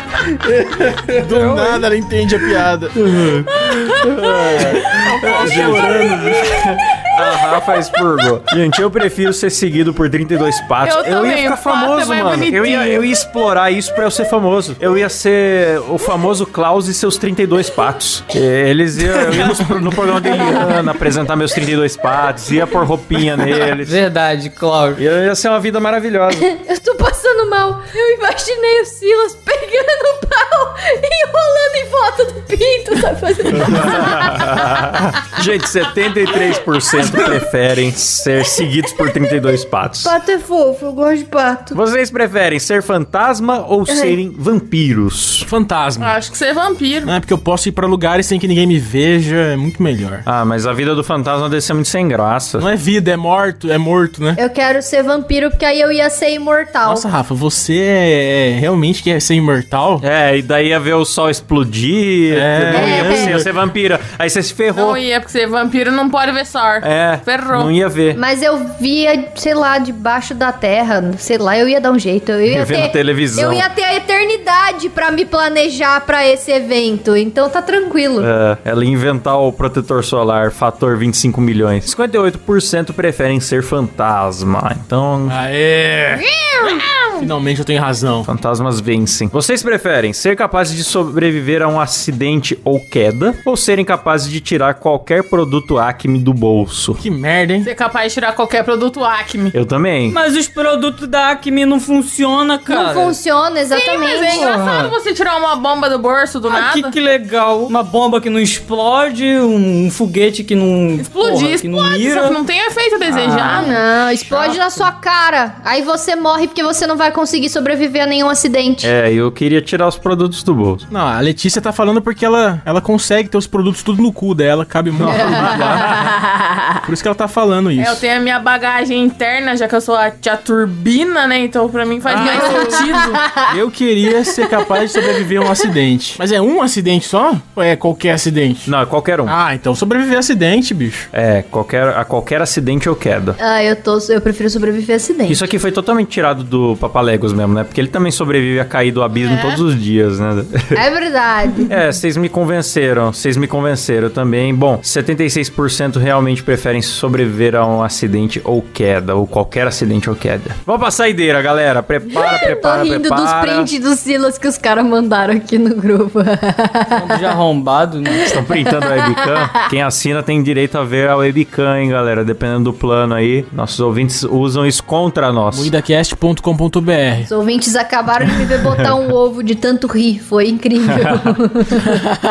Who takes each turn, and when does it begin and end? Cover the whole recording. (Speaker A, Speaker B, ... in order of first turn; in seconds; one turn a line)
Speaker A: 0.5-1.2
Speaker B: 0.6-3.0
Speaker C: 1.3-1.8
Speaker A: 3.0-24.0
Speaker B: 4.4-6.6
Speaker D: 10.8-13.1
Speaker C: 23.8-25.0
Speaker A: 25.0-26.5
Speaker E: 26.4-34.9
Speaker A: 33.5-40.2
Speaker E: 40.0-41.8
Speaker A: 41.7-45.5
Speaker E: 43.9-44.2
Speaker B: 45.5-46.1
Speaker D: 46.0-47.1
Speaker B: 47.0-50.2
Speaker A: 50.3-52.7
Speaker B: 52.6-54.4
Speaker E: 54.4-57.0
Speaker B: 56.9-60.0
Speaker A: 60.0-65.0
Speaker B: 62.3-63.5
Speaker E: 62.7-63.4
Speaker D: 64.7-67.7
Speaker A: 66.8-68.2
Speaker E: 68.2-78.3
Speaker A: 72.5-73.7
Speaker A: 78.2-85.4
Speaker B: 85.3-86.2
Speaker E: 86.1-87.2
Speaker B: 87.2-88.3
Speaker A: 88.2-97.0
Speaker B: 97.0-97.7
Speaker D: 97.6-99.5
Speaker A: 99.5-100.2
Speaker C: 100.1-103.2
Speaker E: 102.7-104.5
Speaker D: 103.7-107.0
Speaker C: 104.3-105.0
Speaker C: 106.5-112.4
Speaker D: 111.0-113.8
Speaker C: 113.1-113.8
Speaker E: 113.5-118.9
Speaker A: 118.8-120.9
Speaker B: 120.9-126.1
Speaker E: 125.1-126.8
Speaker A: 125.2-125.8
Speaker B: 126.8-128.0
Speaker D: 127.8-133.2
Speaker B: 132.1-132.7
Speaker E: 132.2-133.5
Speaker B: 133.4-138.7
Speaker E: 134.6-135.2
Speaker A: 138.7-139.4
Speaker B: 139.3-141.1
Speaker A: 141.1-143.4
Speaker E: 143.4-145.4
Speaker A: 145.3-150.8
Speaker D: 149.2-149.6
Speaker E: 150.7-151.7
Speaker A: 151.7-163.7
Speaker E: 162.1-167.4
Speaker C: 166.9-168.3
Speaker E: 168.1-169.3
Speaker A: 168.3-175.7
Speaker B: 175.5-177.3
Speaker E: 177.3-182.0
Speaker A: 178.3-178.9
Speaker A: 180.9-181.2